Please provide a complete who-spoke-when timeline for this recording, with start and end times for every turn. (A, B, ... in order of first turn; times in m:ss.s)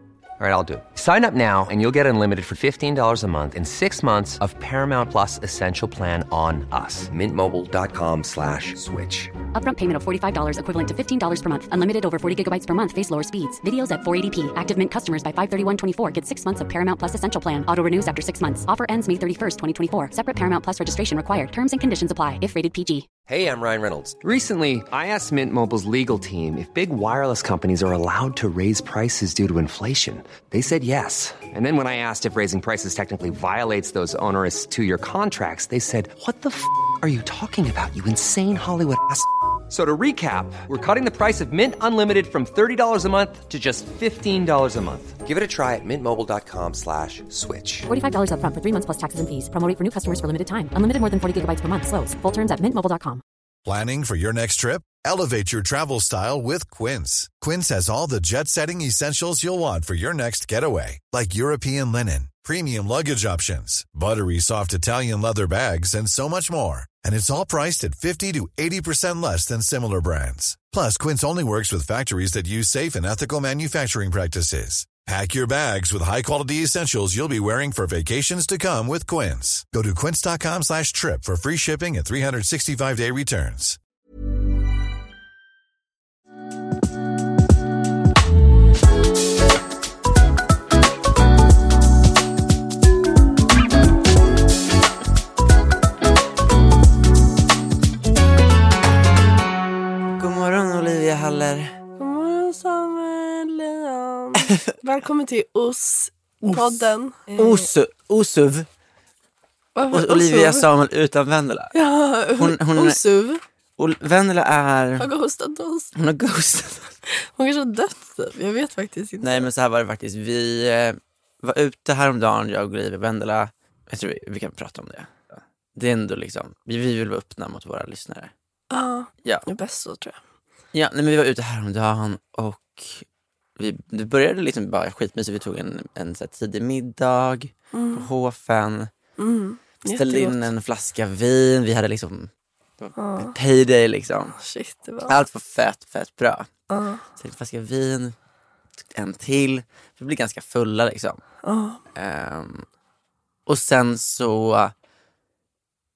0:00.4-0:09.3 A
0:09.5-0:23.1 B
0:23.3-0:47.9 A
0:47.9-0:53.2 B
0:53.6-1:23.8 C
1:40.2-1:41.8 D
1:42.0-1:47.7 E
1:46.4-1:48.7 D
1:49.7-1:50.6 E
1:49.9-1:51.7 D
1:51.7-1:53.4 E
1:52.4-1:53.0 D
1:53.8-1:55.1 D
1:55.0-1:55.9 E
1:55.9-1:56.9 D
1:57.1-1:59.5 E
1:59.2-2:08.3 D
2:08.7-2:10.2 E
2:10.7-2:13.0 D
2:13.6-2:18.9 D
2:17.7-2:18.1 E
2:19.2-2:20.4 E
2:19.9-2:24.4 D
2:23.0-2:23.3 E
2:24.4-2:25.1 E
2:25.1-2:26.5 D
2:26.7-2:27.0 E
2:27.2-2:28.1 D
2:28.9-2:31.2 D
2:31.4-2:31.8 E
2:31.9-2:32.6 D
2:33.5-2:34.7 D